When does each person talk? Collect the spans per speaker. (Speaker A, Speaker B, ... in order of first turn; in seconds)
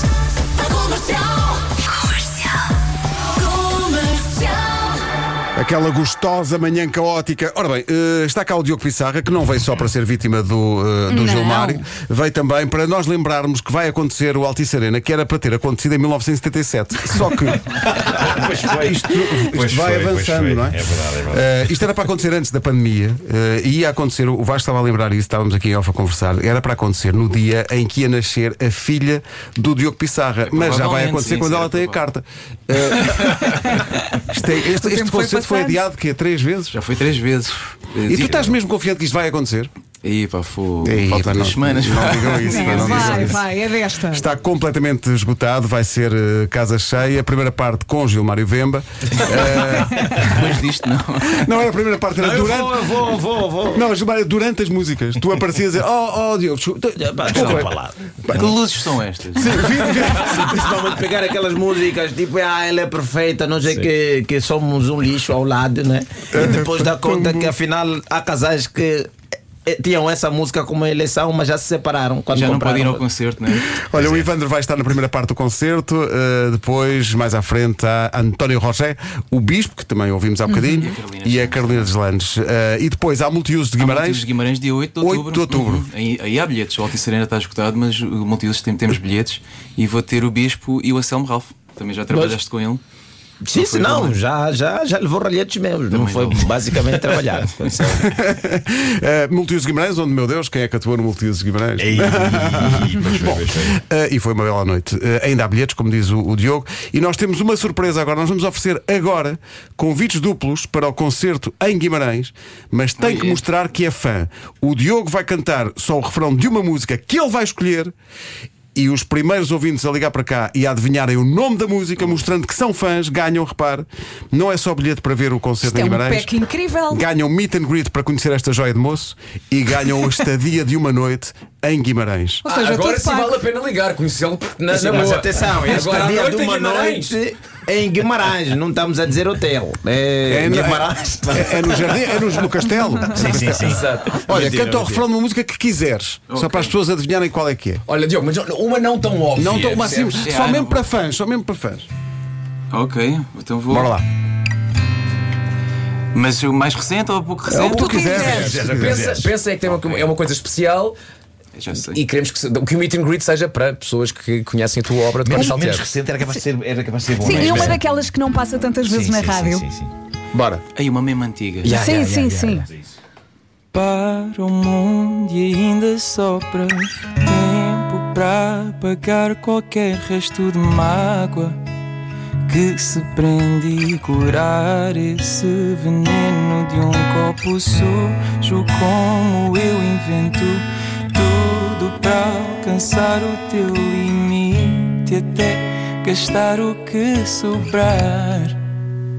Speaker A: 0.6-2.4, 3.4-4.7, 11.1-11.8, 34.7-35.8, 42.5-44.2, 125.6-127.0, 132.4-133.4, 157.7-158.6, 167.2-169.7, 171.7-172.7
Speaker B: 5.6-17.8, 18.8-33.8, 34.3-36.8, 38.1-39.7, 40.8-43.5, 44.1-50.5, 51.3-53.1, 53.7-58.5, 59.4-60.7, 66.3-67.5, 73.7-84.2, 85.0-85.8, 97.8-117.9, 118.8-126.3, 126.9-132.4, 140.3-147.8, 149.3-151.9, 153.7-154.1, 157.5-159.2
Speaker C: 17.8-21.5, 101.8-103.8, 143.1-143.9, 158.1-159.3, 165.2-167.9, 168.7-169.9, 172.6-172.9
Speaker D: 30.4-32.0, 33.0-33.8, 36.7-38.6, 40.0-43.4, 49.3-49.5, 50.1-51.5, 57.3-57.7, 58.3-60.1, 72.3-74.2, 80.7-81.9, 83.8-92.8, 93.5-94.2, 95.9-96.6, 113.0-113.4, 146.3-146.7, 149.5-150.9, 152.7-153.9, 156.1-158.2, 159.8-160.0, 161.6-162.0, 170.8-171.8, 173.7-181.6, 182.5-198.6
Speaker E: 52.2-53.8, 57.0-58.1, 60.2-69.1, 69.7-73.0, 93.4-98.0, 134.7-142.1, 144.3-145.0, 171.7-172.6
Speaker F: 92.1-92.4, 132.5-137.2, 143.6-144.3, 147.9-150.3, 158.7-161.0, 161.7-165.9